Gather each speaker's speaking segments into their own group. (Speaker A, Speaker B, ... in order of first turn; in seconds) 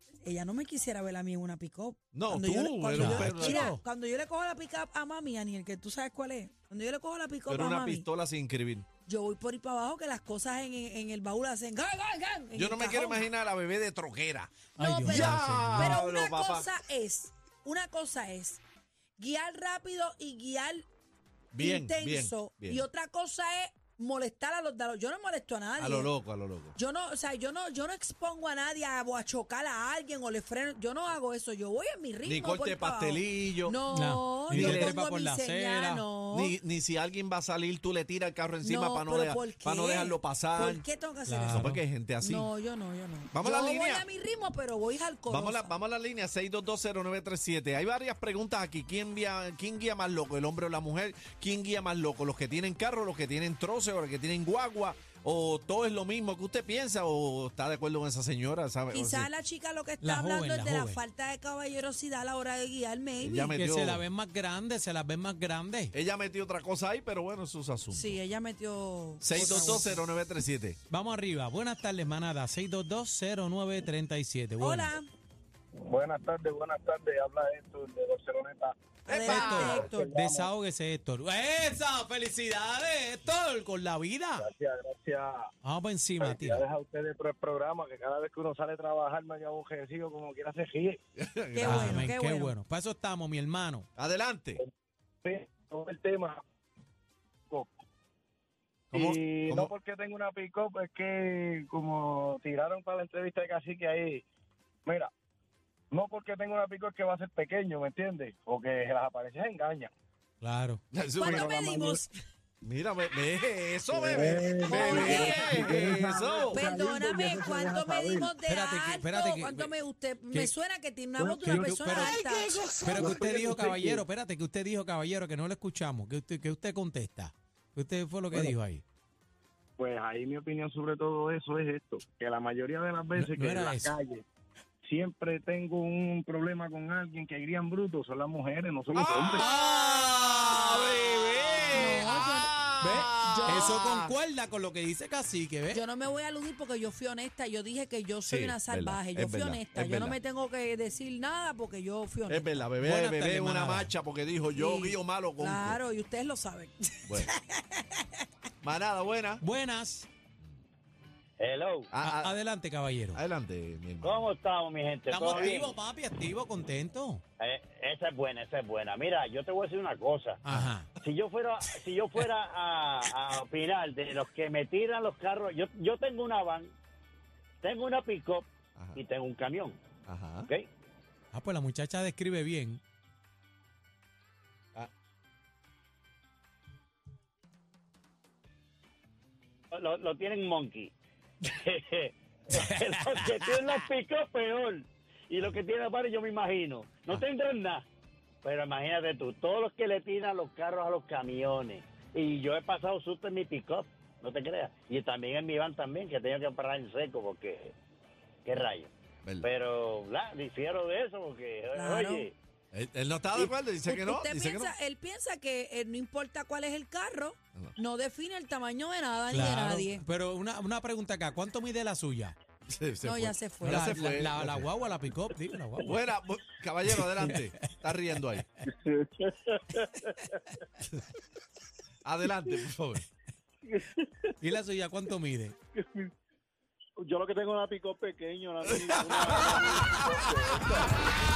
Speaker A: 0.2-8.1, 9.1-13.2, 14.8-18.6, 19.2-20.9, 21.6-26.1, 26.8-36.5, 38.6-41.6, 42.2-45.7, 58.9-63.4, 67.9-70.0, 74.6-75.1, 79.0-80.1, 91.5-92.5, 111.2-112.1, 114.7-115.7, 116.5-122.6, 141.7-142.5, 143.2-143.6, 145.7-152.6, 154.5-158.0, 211.7-212.3, 213.4-220.0, 223.0-223.8
Speaker B: 2.1-3.8, 7.5-8.8, 12.5-16.7, 21.5-22.8, 25.8-26.8, 32.2-33.8, 34.5-35.0, 36.3-40.8, 41.5-42.5, 43.3-44.0, 45.3-59.3, 63.2-64.0, 65.9-68.2, 69.2-70.8, 79.1-79.9, 91.2-92.1, 94.0-94.6, 98.9-99.7, 110.9-112.0, 112.6-116.7, 138.9-144.1, 148.3-150.2, 152.3-155.8, 157.1-157.3, 158.6-159.4, 161.9-162.3, 163.1-164.2, 178.8-179.0, 180.1-180.5, 212.7-214.7, 222.7-224.7, 225.8-228.5, 232.0-233.1, 238.6-240.8
Speaker C: 2.9-3.8, 14.8-16.0, 33.9-36.1, 41.3-41.8, 60.0-61.0, 63.4-65.9, 69.3-69.8, 70.9-74.9, 79.3-84.5, 85.6-86.6, 91.6-93.9, 110.4-110.8, 118.4-119.8, 120.3-120.5, 121.4-122.2, 122.8-128.8, 133.2-133.9, 139.3-145.8, 152.7-153.9, 159.4-160.1, 161.9-163.2, 165.1-167.2, 170.4-170.9, 181.3-182.8, 192.5-193.8, 219.3-222.3, 223.6-226.0, 226.9-227.7, 234.4-235.6
Speaker D: 75.8-80.5, 84.4-85.5, 86.2-91.0, 95.2-96.4, 98.9-104.2, 104.8-105.1, 105.9-109.9, 111.3-112.0, 113.9-118.4, 121.2-124.0, 129.8-134.2, 134.8-139.5, 228.7-230.0, 237.0-240.9
Speaker E: 161.4-161.9, 164.0-165.8, 167.4-170.4, 171.0-176.7, 177.6-179.8, 189.7-190.9, 191.4-197.8, 198.4-207.7, 208.4-208.9, 209.4-212.3